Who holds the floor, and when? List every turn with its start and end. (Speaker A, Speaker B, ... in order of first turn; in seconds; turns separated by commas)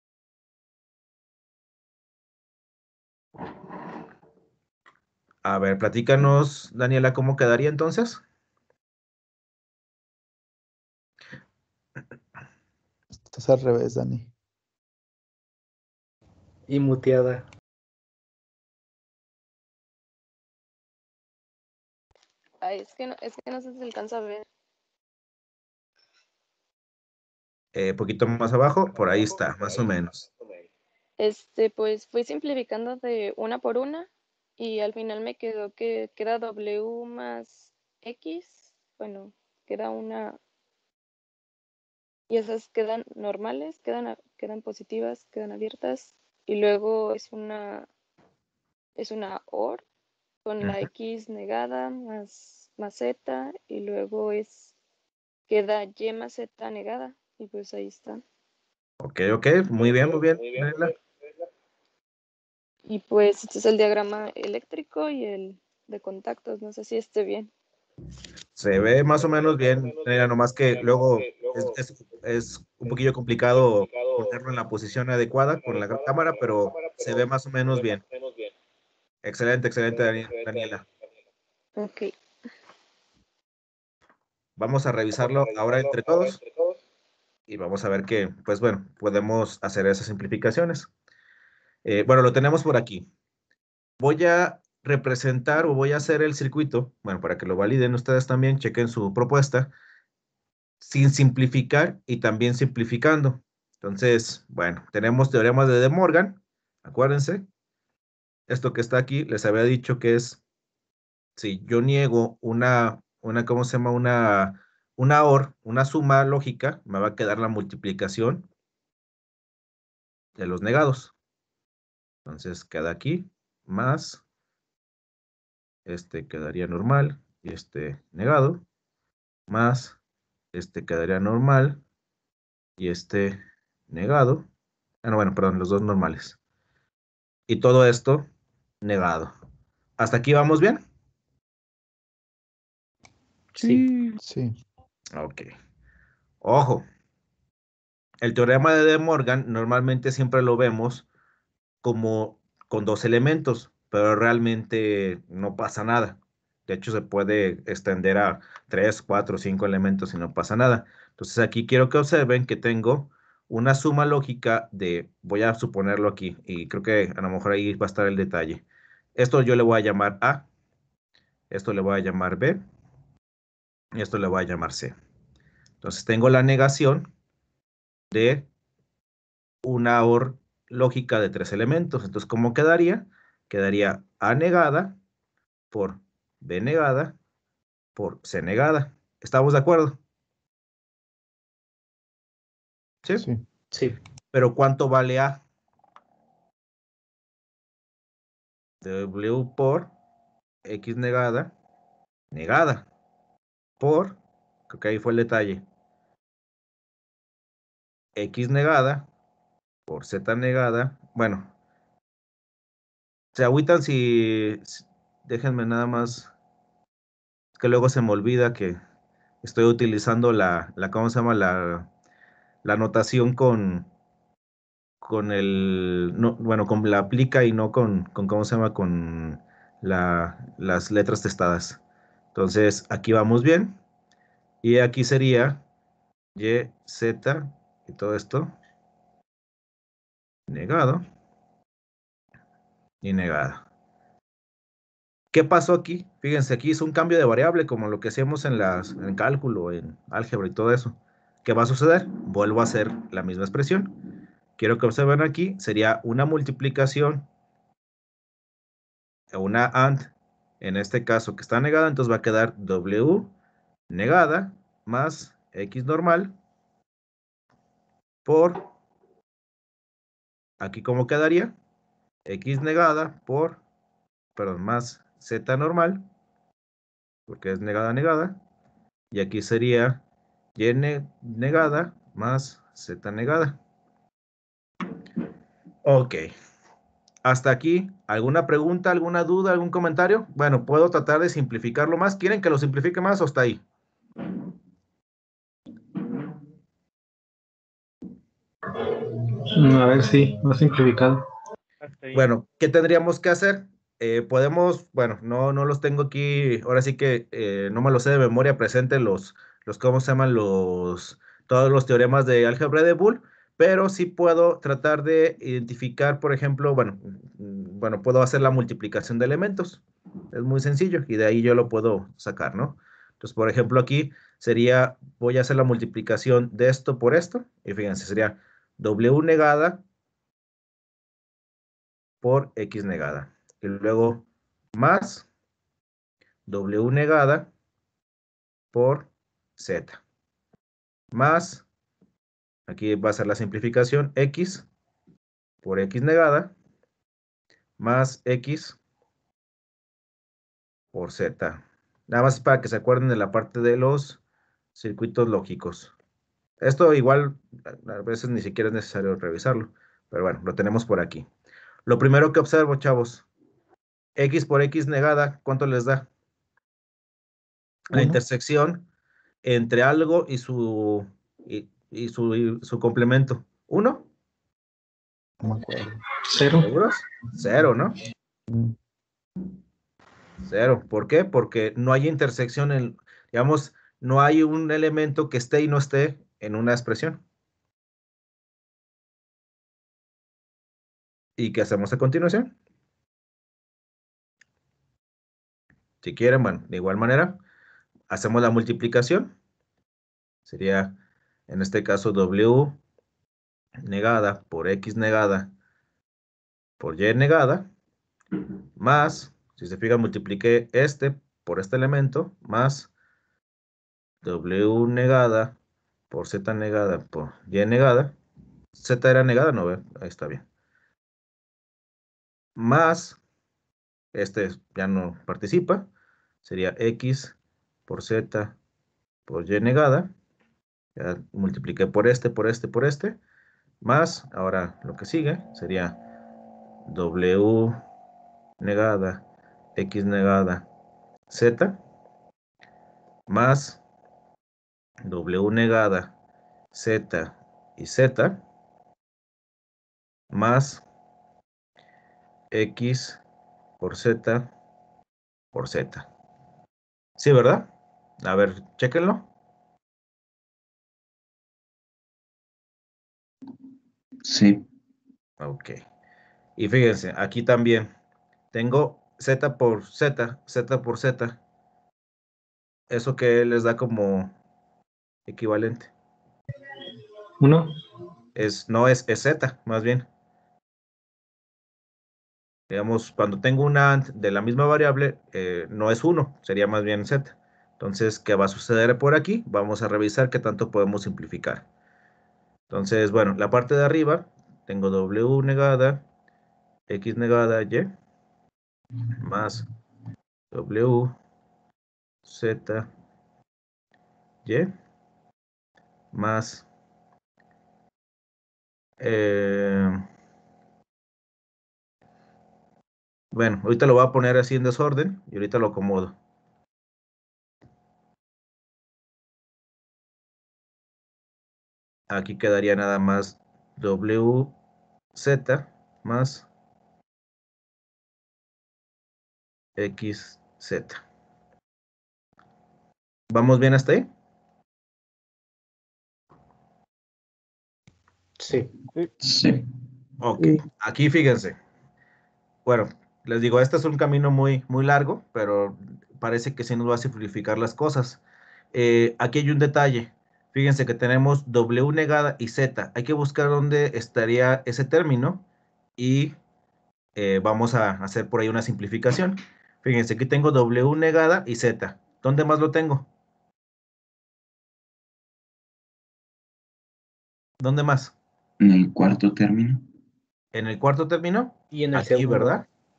Speaker A: 5.4-8.2, Speaker B: 13.2-14.3, Speaker C: 16.7-17.4, Speaker D: 22.6-24.5, Speaker A: 27.7-30.3, Speaker D: 31.2-40.4, Speaker D: 42.3-47.9, Speaker D: 49.0-49.8, Speaker D: 50.4-54.7, Speaker A: 50.6-50.9, Speaker D: 55.5-58.2, Speaker A: 59.0-60.9, Speaker D: 62.9-67.5, Speaker A: 68.5-78.0, Speaker A: 79.2-80.8, Speaker D: 81.8-82.1, Speaker A: 84.6-86.4, Speaker A: 87.5-90.9, Speaker A: 91.8-93.0, Speaker A: 94.0-99.7, Speaker A: 100.8-107.5, Speaker A: 108.5-110.4, Speaker A: 111.4-118.5, Speaker A: 120.4-121.1, Speaker A: 122.2-124.2, Speaker A: 125.8-128.6, Speaker A: 129.5-130.0, Speaker A: 130.5-131.8, Speaker A: 132.8-134.4, Speaker A: 135.0-136.4, Speaker A: 137.5-138.2, Speaker A: 138.8-139.3, Speaker A: 140.0-140.8, Speaker B: 143.6-144.6, Speaker C: 143.6-143.8, Speaker A: 145.1-145.5, Speaker A: 146.4-146.8, Speaker A: 148.2-151.1, Speaker A: 151.8-168.6, Speaker A: 169.2-170.4, Speaker A: 171.5-172.6, Speaker A: 173.9-174.9, Speaker A: 175.8-177.1, Speaker A: 178.1-178.5, Speaker A: 179.6-184.9, Speaker A: 185.7-187.1, Speaker A: 187.9-190.0, Speaker B: 193.2-193.4, Speaker C: 193.7-194.0, Speaker A: 194.3-195.4, Speaker A: 198.8-199.9, Speaker A: 200.6-201.5, Speaker A: 202.3-202.9, Speaker A: 203.8-204.2, Speaker A: 204.7-205.6, Speaker A: 208.2-209.1, Speaker A: 209.9-211.5, Speaker A: 213.3-216.3, Speaker A: 217.6-218.8, Speaker A: 219.4-221.9, Speaker A: 222.6-223.9, Speaker A: 225.0-231.8, Speaker A: 232.3-233.8, Speaker A: 234.6-235.6, Speaker A: 236.3-238.5, Speaker A: 240.5-241.0, Speaker A: 243.0-243.6, Speaker A: 245.3-254.0, Speaker A: 254.6-257.3, Speaker A: 259.3-263.3, Speaker A: 263.9-266.3, Speaker A: 268.2-268.7, Speaker A: 270.6-271.5, Speaker A: 272.2-273.6, Speaker A: 274.4-276.0, Speaker A: 277.3-278.4, Speaker A: 279.1-280.0, Speaker A: 280.6-283.6, Speaker A: 285.8-286.3, Speaker A: 287.2-293.6, Speaker E: 298.8-301.2, Speaker A: 302.1-329.8, Speaker A: 332.2-335.3, Speaker A: 336.5-337.5, Speaker A: 338.7-340.0, Speaker A: 341.1-341.6, Speaker A: 342.7-344.7, Speaker A: 345.6-346.5, Speaker A: 347.8-348.8, Speaker A: 350.9-354.2, Speaker A: 354.7-355.9, Speaker A: 356.6-361.3, Speaker A: 361.9-363.2, Speaker A: 364.1-366.1, Speaker A: 367.9-368.8, Speaker B: 367.9-368.2, Speaker A: 369.4-374.1, Speaker B: 375.4-376.0, Speaker E: 376.2-376.7, Speaker A: 376.4-377.9, Speaker B: 378.5-378.8, Speaker A: 380.4-387.2, Speaker A: 391.4-392.5, Speaker A: 396.0-397.4, Speaker A: 398.1-399.3, Speaker A: 400.5-400.9, Speaker A: 401.5-402.8, Speaker A: 403.8-405.5, Speaker A: 406.8-407.7, Speaker A: 408.8-412.9, Speaker A: 414.2-415.6, Speaker A: 416.1-418.1, Speaker A: 418.8-420.4, Speaker A: 422.6-423.2, Speaker A: 424.1-425.9, Speaker A: 426.4-427.3, Speaker A: 427.9-428.6, Speaker A: 429.3-430.1, Speaker A: 430.9-433.2, Speaker A: 433.8-436.0, Speaker A: 436.9-437.8, Speaker A: 438.6-439.2, Speaker A: 439.8-440.6, Speaker A: 441.3-441.8, Speaker A: 443.3-443.8, Speaker A: 445.0-446.1, Speaker A: 446.7-448.4, Speaker A: 450.3-450.8, Speaker A: 452.5-453.2, Speaker A: 453.8-454.5, Speaker A: 455.5-456.1, Speaker A: 457.2-457.7, Speaker A: 458.2-459.3, Speaker F: 464.2-464.6, Speaker A: 465.4-465.8, Speaker A: 466.6-467.9, Speaker A: 468.5-471.4, Speaker A: 472.9-474.3, Speaker A: 475.3-475.9, Speaker E: 477.4-477.7, Speaker A: 478.4-480.1, Speaker A: 482.7-491.6, Speaker A: 492.7-496.0, Speaker A: 496.9-497.9, Speaker A: 499.2-499.6, Speaker A: 500.5-501.2, Speaker A: 502.2-502.9, Speaker A: 504.4-504.7, Speaker A: 506.1-506.6, Speaker A: 509.0-510.0, Speaker A: 513.3-516.1, Speaker A: 522.1-524.5, Speaker A: 525.1-526.5, Speaker A: 529.8-531.0, Speaker A: 533.3-534.1, Speaker C: 538.4-538.7, Speaker F: 539.2-539.6, Speaker A: 540.2-541.5, Speaker A: 542.6-548.2, Speaker A: 548.7-555.4, Speaker A: 556.0-556.3, Speaker A: 557.1-563.1, Speaker A: 567.6-568.1, Speaker F: 568.6-569.9, Speaker A: 570.5-572.6, Speaker C: 571.7-572.6